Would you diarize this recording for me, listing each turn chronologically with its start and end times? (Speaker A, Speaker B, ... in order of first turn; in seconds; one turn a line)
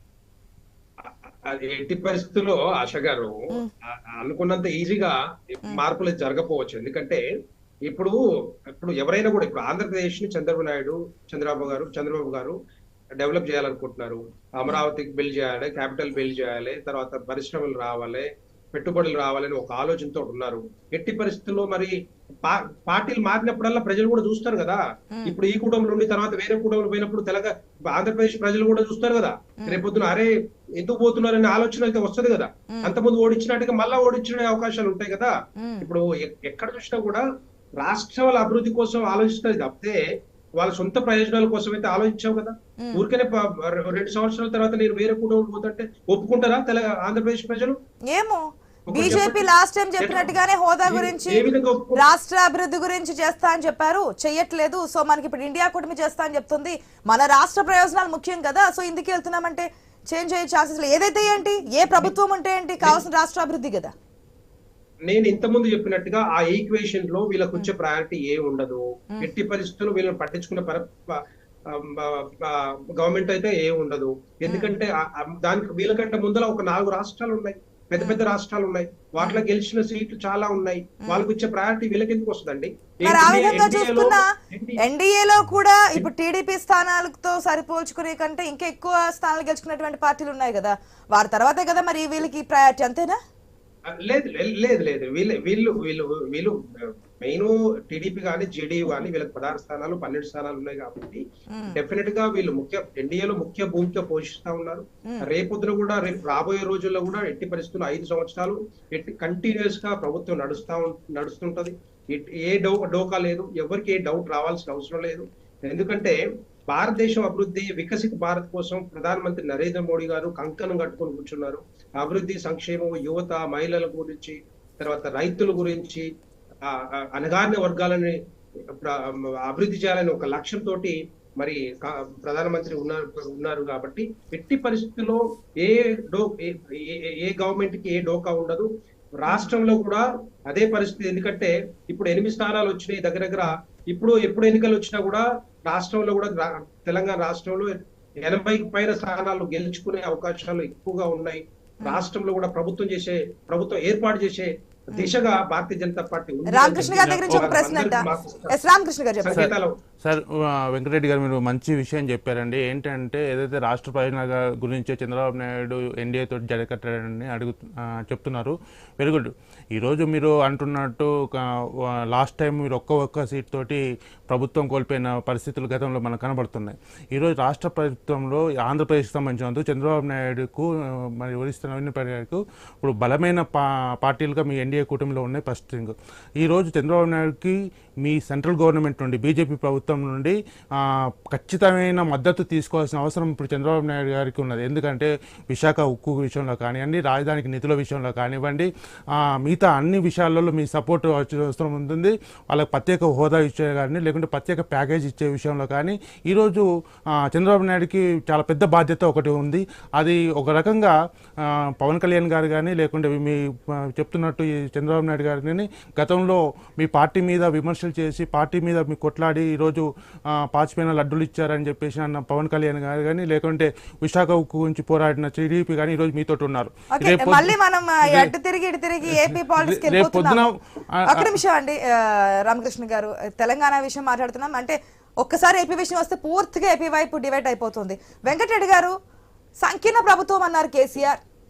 Speaker A: 1.1-7.2
Speaker A: 7.9-8.2
Speaker A: 8.7-12.6
Speaker A: 13.2-21.9
Speaker A: 22.4-37.2
Speaker B: 35.6-35.9
Speaker A: 37.8-40.0
Speaker A: 40.6-47.8
Speaker B: 48.1-63.9
Speaker A: 48.9-49.5
Speaker A: 50.0-50.3
Speaker A: 50.9-52.0
Speaker A: 65.1-71.2
Speaker A: 71.7-84.8
Speaker B: 74.5-74.8
Speaker B: 78.0-78.2
Speaker B: 83.0-84.2
Speaker B: 84.8-93.2
Speaker A: 94.0-101.2
Speaker B: 101.5-101.8
Speaker A: 101.7-116.2
Speaker A: 116.7-126.0
Speaker A: 126.7-128.2
Speaker A: 128.7-158.5
Speaker B: 139.3-139.5
Speaker B: 156.5-159.4
Speaker C: 156.8-157.6
Speaker A: 159.2-159.7
Speaker C: 160.0-171.4
Speaker C: 172.1-206.6
Speaker C: 207.3-219.8
Speaker C: 220.4-228.3
Speaker B: 226.9-230.5
Speaker C: 229.1-231.3
Speaker B: 231.1-238.9
Speaker B: 239.6-241.2